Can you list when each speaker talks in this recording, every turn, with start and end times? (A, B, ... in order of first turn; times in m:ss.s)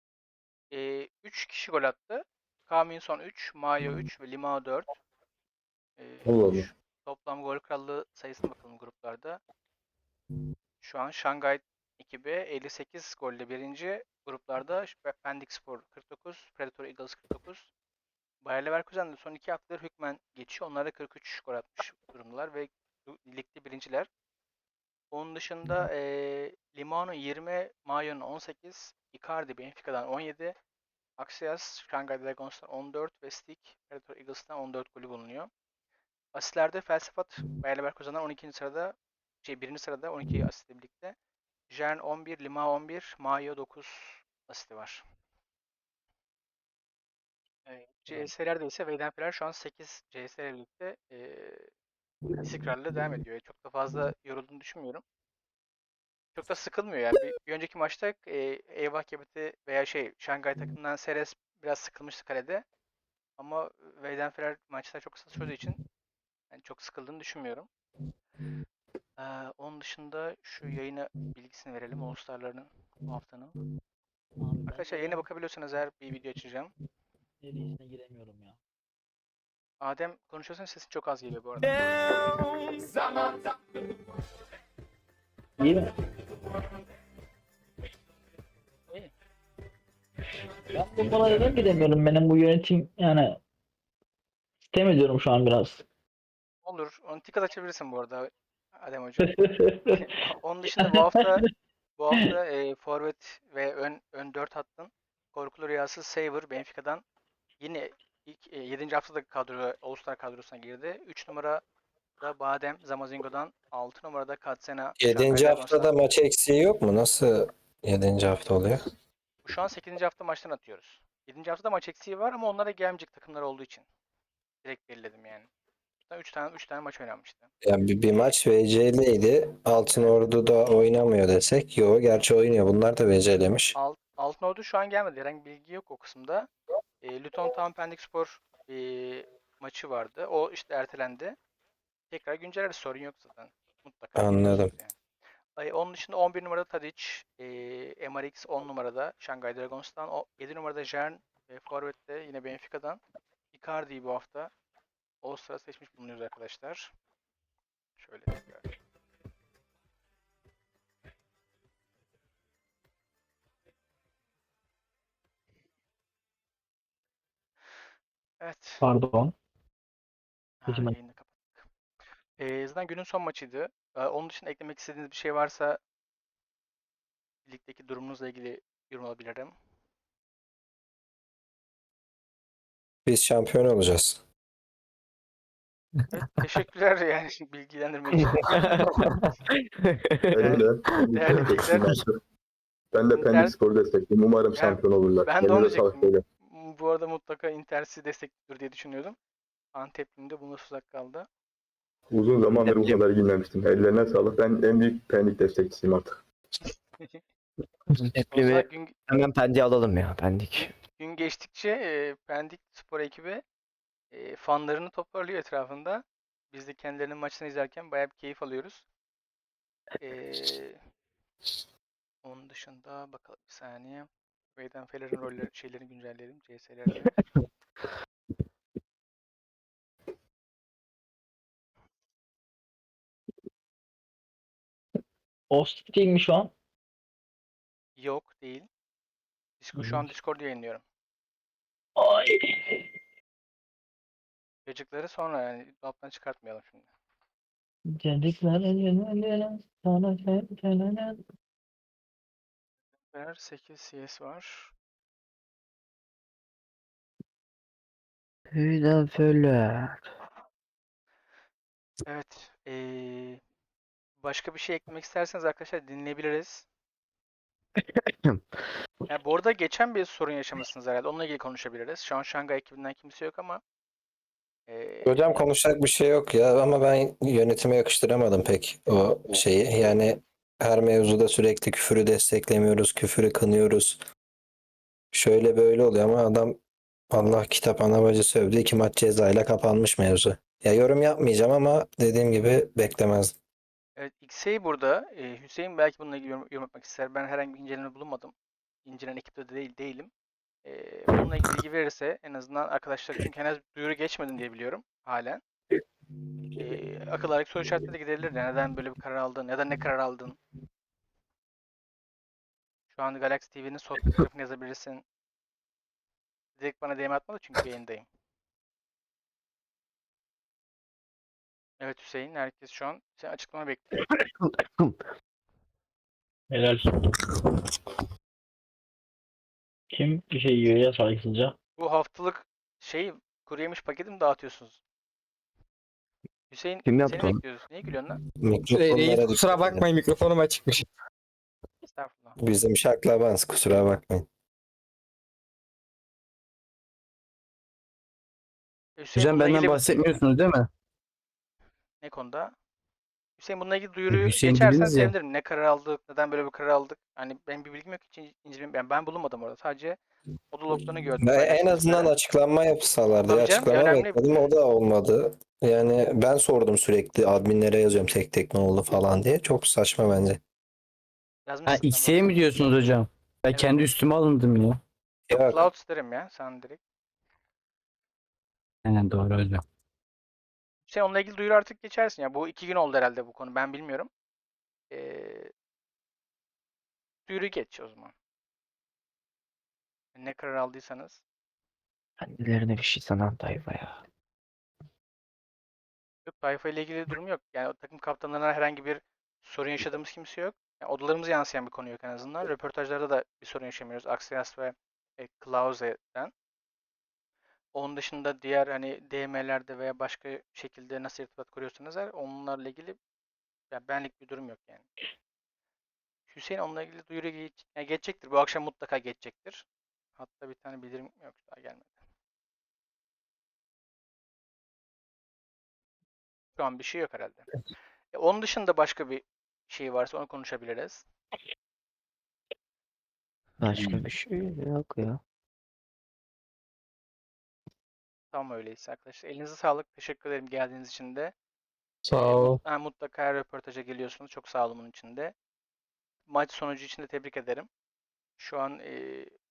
0:00.7-0:04.9 A
0:06.0-0:09.4 A
0:06.2-0:06.7 B
0:10.8-0:17.7 A
0:18.4-0:24.1 A
0:25.1-0:30.6 A
0:31.2-0:35.5 A
0:36.4-0:41.2 A
0:41.7-0:45.0 A
0:47.7-0:51.7 A
0:52.4-0:55.0 A
0:56.4-1:02.6 A
1:03.4-1:05.8 A
1:06.5-1:07.7 A
1:09.2-1:13.5 A
1:14.4-1:15.2 C
1:14.7-1:16.7 A
1:17.4-1:18.6 C
1:19.8-1:21.7 A
1:25.6-1:25.9 C
1:30.7-1:33.4 C
1:34.7-1:35.8 C
1:36.6-1:39.4 A
1:39.2-1:40.2 C
1:39.9-1:41.4 A
1:40.8-1:41.5 C
1:42.0-1:47.0 A
1:47.6-1:51.6 A
1:52.2-1:55.9 A
1:55.0-1:58.8 D
1:59.4-2:03.9 A
2:04.6-2:05.5 A
2:06.1-2:07.5 A
2:07.6-2:13.8 D
2:09.8-2:10.3 A
2:13.8-2:16.5 A
2:17.0-2:21.4 A
2:22.1-2:25.0 A
2:24.2-2:24.7 D
2:25.6-2:33.0 A
2:33.5-2:34.5 A
2:35.2-2:36.9 A
2:38.0-2:38.6 A
2:48.4-2:48.8 A
2:48.8-2:49.3 C
2:50.6-2:51.6 A
2:50.7-2:51.0 C
2:52.4-2:55.8 A
2:57.5-2:59.6 A
3:03.1-3:04.2 D
3:06.1-3:08.6 A
3:08.4-3:09.1 E
3:09.8-3:11.8 E
3:10.3-3:12.2 B
3:10.4-3:11.8 A
3:12.9-3:16.2 B
3:13.1-3:13.6 A
3:14.6-3:19.2 A
3:19.8-3:21.3 A
3:22.1-3:26.2 B
3:22.5-3:23.0 E
3:28.0-3:30.7 E
3:28.3-3:29.0 A
3:31.0-3:33.4 A
3:34.1-3:38.9 A
3:40.0-3:40.8 A
3:42.2-3:47.2 A
3:55.5-3:56.5 C
3:58.0-3:58.7 A
3:59.6-4:00.8 A
4:02.0-4:02.9 C
4:04.7-4:06.9 A
4:08.0-4:11.2 C
4:13.1-4:14.7 A
4:18.5-4:20.1 E
4:22.1-4:23.4 A
4:24.2-4:26.7 A
4:27.8-4:28.6 E
4:29.1-4:33.6 A
4:34.7-4:35.4 A
4:35.1-4:44.0 D
4:45.1-4:46.6 D
4:47.1-4:53.4 D
4:54.0-4:58.3 A
4:58.8-5:00.1 A
5:00.6-5:05.4 A
5:06.6-5:10.4 A
5:12.9-5:15.0 A
5:16.6-5:18.1 A
5:21.8-5:23.9 A
5:24.0-5:24.9 E
5:26.5-5:27.0 C
5:29.9-5:31.6 C
5:31.8-5:34.8 A
5:36.5-5:38.2 A
5:36.8-5:37.4 E
5:38.4-5:39.9 D
5:38.7-5:40.8 F
5:41.9-5:42.4 A
5:42.4-5:44.3 D
5:49.0-5:49.8 A
5:49.2-5:50.7 G
5:52.0-5:52.5 A
5:53.4-6:00.0 A
5:54.1-5:55.1 G
6:00.5-6:02.1 A
6:01.2-6:10.4 D
6:03.3-6:04.5 A
6:11.5-6:13.0 A
6:11.7-6:14.8 G
6:13.5-6:13.9 A
6:15.3-6:15.7 D
6:15.3-6:16.8 A
6:18.8-6:19.6 G
6:20.9-6:24.1 A
6:24.9-6:25.5 A
6:27.3-6:28.1 A
6:30.2-6:31.2 A
6:32.2-6:34.0 E
6:36.3-6:46.3 A
6:47.8-6:53.0 A
6:53.7-6:54.9 A
6:56.3-6:59.6 A
7:00.2-7:02.0 A
7:06.6-7:07.5 A
7:08.1-7:11.0 A
7:13.6-7:15.2 E
7:18.3-7:21.3 A
7:22.0-7:22.6 F
7:22.1-7:25.3 A
7:26.3-7:27.7 A
7:28.4-7:29.4 A